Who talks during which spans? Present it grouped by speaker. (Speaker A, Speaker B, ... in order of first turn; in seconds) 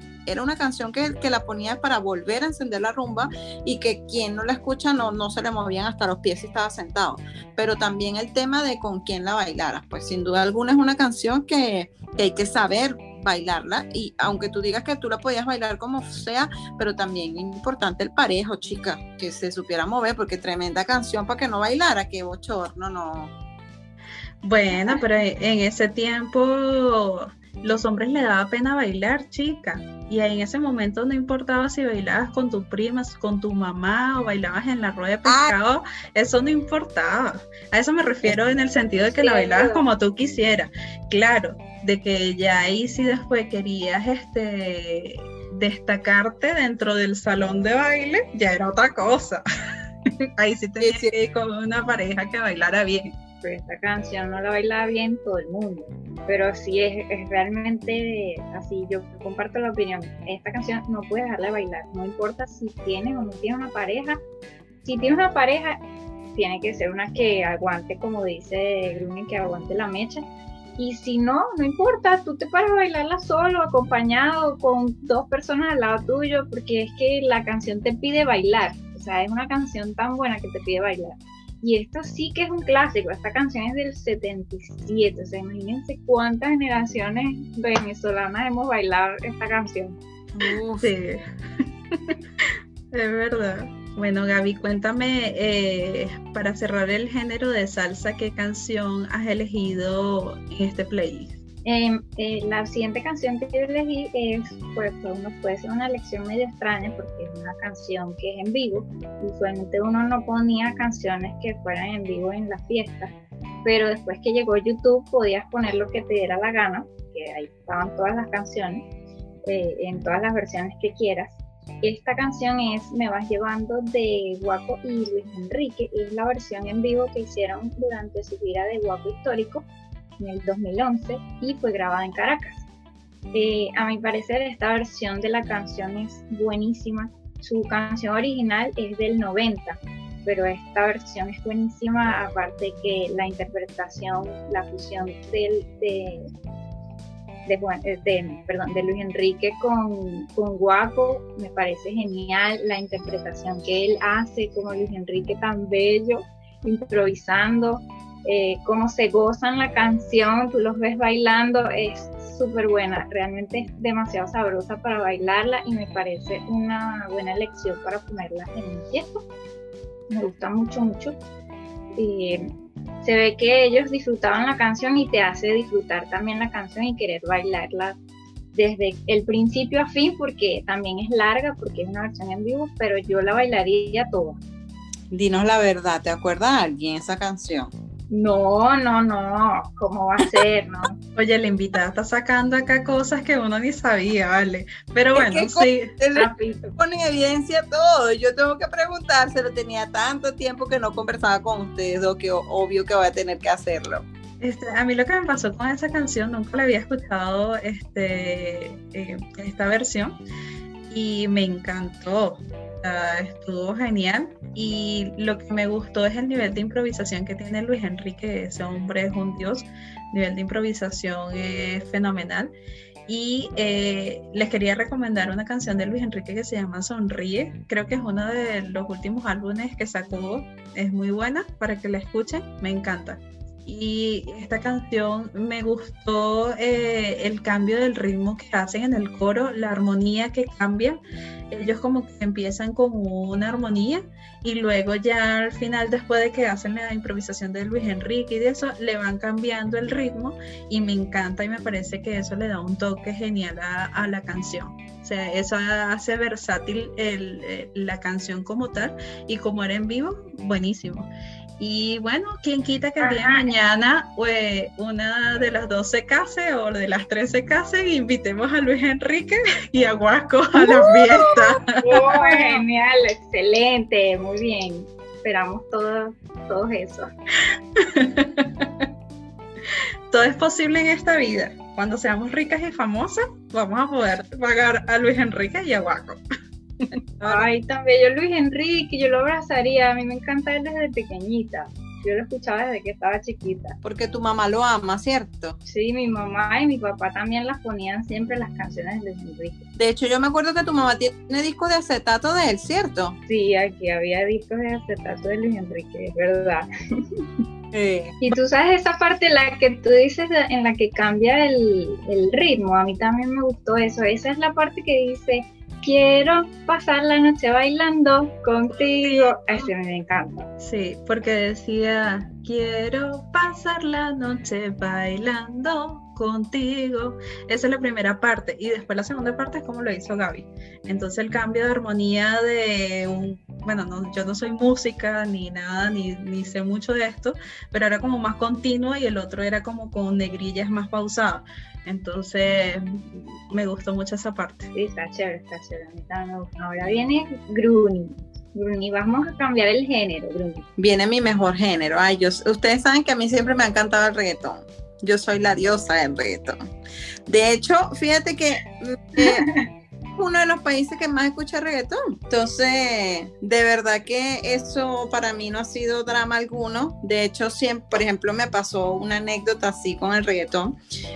Speaker A: 0.3-23.3, 35.3-35.5, 50.8-51.1, 90.3-90.9, 185.1-187.7, 195.2-204.1, 293.8-295.6, 299.8-303.2, 307.7-308.2, 350.8-356.6, 357.3-359.5, 360.2-370.8
Speaker B: 24.4-49.4, 50.4-53.1, 90.8-91.2, 91.9-101.4, 191.2-195.9, 204.4-210.2, 210.9-222.5, 223.1-241.0, 241.5-272.2, 277.8-278.9, 280.1-286.2, 286.9-287.2, 318.8-319.7, 320.6-344.7
Speaker C: 39.1-39.9, 53.4-64.2, 64.8-65.8, 66.3-70.2, 70.8-90.0, 101.7-113.1, 113.6-118.8, 119.5-129.7, 130.2-132.7, 133.3-146.3, 147.5-169.2, 170.1-171.2, 172.0-172.5, 173.0-178.0, 178.5-184.4, 188.1-191.0, 196.1-196.8, 263.0-263.4, 271.8-277.1, 287.2-293.8, 295.7-299.6, 303.3-307.2, 308.2-320.5, 344.7-350.6, 359.2-359.7